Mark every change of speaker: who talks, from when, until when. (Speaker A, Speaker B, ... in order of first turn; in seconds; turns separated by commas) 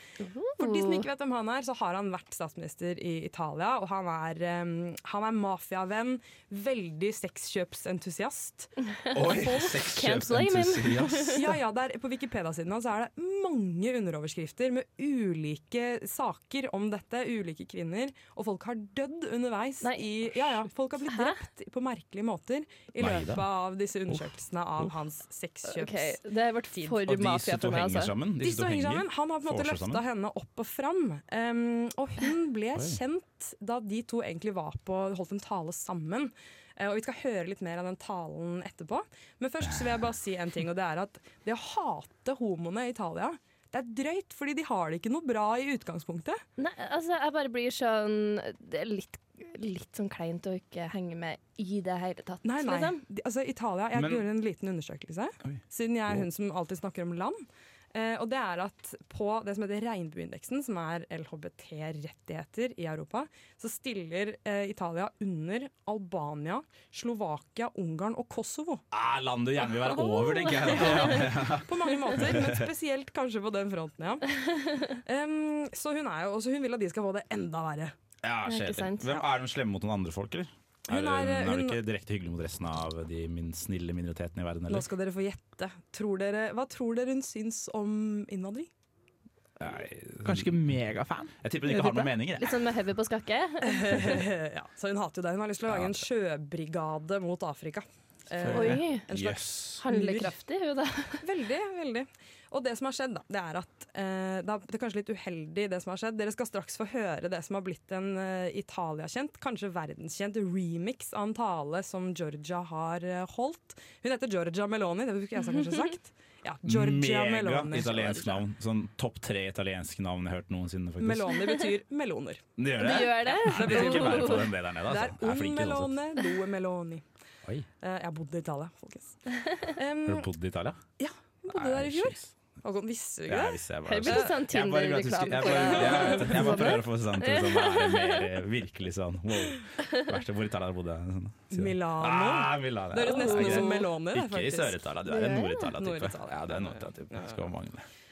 Speaker A: 0.2-1.1, Speaker B: 0.6-8.7, Speaker A: 8.9-11.4, Speaker C: 9.1-11.5, Speaker B: 11.3-26.2, Speaker A: 19.8-21.4, Speaker C: 23.0-23.4, Speaker A: 25.6-28.1, Speaker C: 27.0-30.0, Speaker B: 28.4-46.4, Speaker C: 32.7-33.0, Speaker A: 46.6-53.0, Speaker B: 52.4-68.8, Speaker C: 53.9-54.2, Speaker C: 55.4-56.3, Speaker C: 68.9-72.7, Speaker A: 70.2-71.1, Speaker B: 70.6-74.3, Speaker B: 74.9-77.9, Speaker C: 78.2-84.9, Speaker A: 78.5-79.2, Speaker B: 80.9-81.8, Speaker B: 84.7-88.7, Speaker C: 89.6-90.7, Speaker D: 90.2-92.0, Speaker C: 91.4-92.6, Speaker A: 92.3-94.2, Speaker B: 93.6-100.3, Speaker C: 95.7-96.0, Speaker D: 98.4-98.8, Speaker A: 98.5-99.1, Speaker C: 99.1-99.8, Speaker A: 99.8-101.2, Speaker B: 101.2-118.4, Speaker C: 116.6-121.4, Speaker B: 121.0-127.0, Speaker C: 122.6-126.0, Speaker A: 122.8-124.5, Speaker B: 127.8-130.3, Speaker C: 130.0-130.8, Speaker B: 131.0-134.3, Speaker C: 131.5-132.3, Speaker C: 133.3-147.8, Speaker A: 133.8-138.3, Speaker B: 135.4-136.4, Speaker B: 141.5-144.9, Speaker A: 143.0-143.8, Speaker A: 145.1-145.7, Speaker B: 145.7-147.5